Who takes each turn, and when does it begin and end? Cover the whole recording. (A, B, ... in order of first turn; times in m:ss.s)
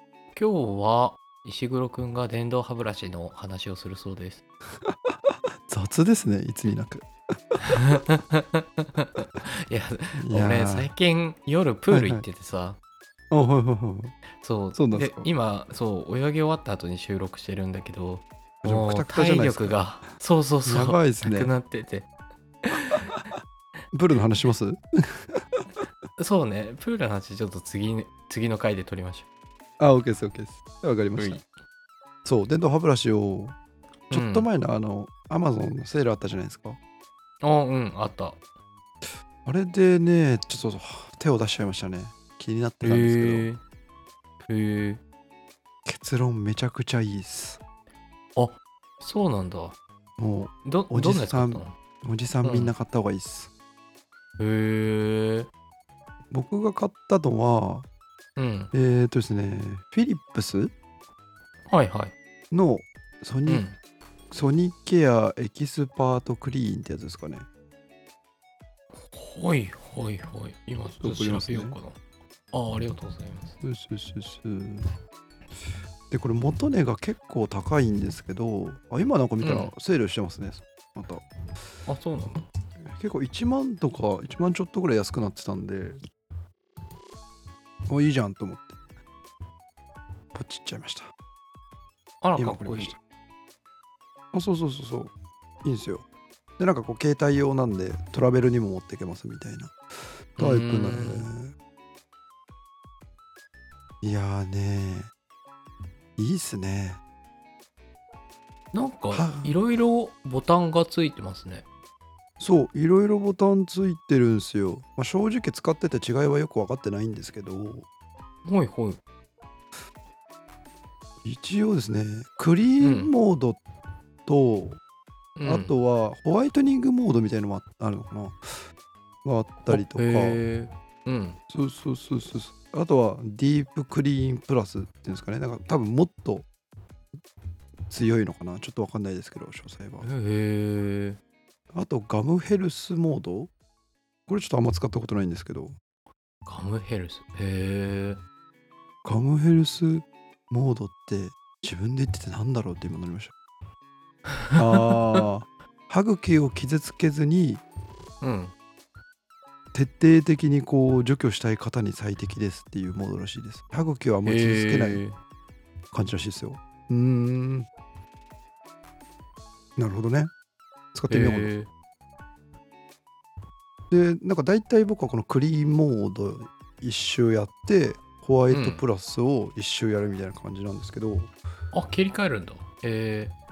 0:00.3-0:04.4 A
0:05.7-0:07.6 B
0:07.7-0:12.8 A
0:10.2-0:10.9 B
0:11.9-0:12.2 B
0:13.3-0:14.2 B
0:14.4-0:22.1 A
0:14.7-0:15.3 B
0:18.6-0:19.8 B
0:20.6-0:21.5 B
0:22.6-0:23.1 A
0:23.9-0:25.6 B
0:26.2-0:29.2 A
0:29.8-0:31.4 B
0:31.2-0:31.4 A
0:32.2-0:33.6 B
0:34.1-0:34.5 A
0:34.1-0:36.8 B
0:37.4-0:38.4 A
0:39.4-0:43.5 B
0:42.8-0:43.6 A
0:44.5-0:45.0 A
0:45.8-0:47.6 B
0:48.4-0:49.8 A
0:50.2-0:53.5 B
0:50.6-0:51.7 A
0:52.4-0:52.7 A
0:54.4-0:55.5 A
0:56.3-0:57.9 B
0:58.4-0:58.7 A
0:58.7-1:00.7 B
1:01.7-1:02.1 A
1:02.5-1:03.7 B
1:03.5-1:03.7 A
1:04.3-1:07.5 B
1:09.1-1:12.0 A
1:11.0-1:11.8 B
1:12.5-1:13.5 A
1:13.6-1:14.9 B
1:16.1-1:21.2 B
1:19.4-1:19.7 A
1:21.9-1:22.4 A
1:22.8-1:26.0 B
1:27.9-1:28.8 B
1:30.3-1:31.1 B
1:32.2-1:32.9 A
1:32.4-1:33.0 B
1:34.3-1:35.1 B
1:35.6-1:36.0 B
1:36.6-1:39.8 B
1:40.4-1:41.3 A
1:40.4-1:41.5 B
1:44.0-1:45.1 B
1:46.2-1:47.0 B
1:48.7-1:51.7 A
1:49.1-1:49.6 B
1:52.4-1:57.9 B
1:58.4-1:59.0 A
2:01.2-2:03.6 B
2:02.8-2:03.1 A
2:04.3-2:04.8 B
2:05.4-2:05.7 A
2:05.4-2:08.6 B
2:09.2-2:10.4 B
2:09.7-2:11.4 A
2:11.5-2:16.5 B
2:17.9-2:20.1 B
2:20.0-2:21.2 A
2:21.7-2:23.5 B
2:24.3-2:25.8 B
2:26.5-2:28.2 A
2:29.0-2:33.3 B
2:34.6-2:37.6 B
2:38.2-2:38.5 A
2:39.7-2:45.0 B
2:44.2-2:45.2 A
2:45.9-2:47.7 B
2:49.8-2:50.3 B
2:51.0-2:51.5 B
2:51.1-2:51.7 A
2:53.9-3:01.3 B
2:58.5-2:58.8 A
3:01.7-3:03.3 A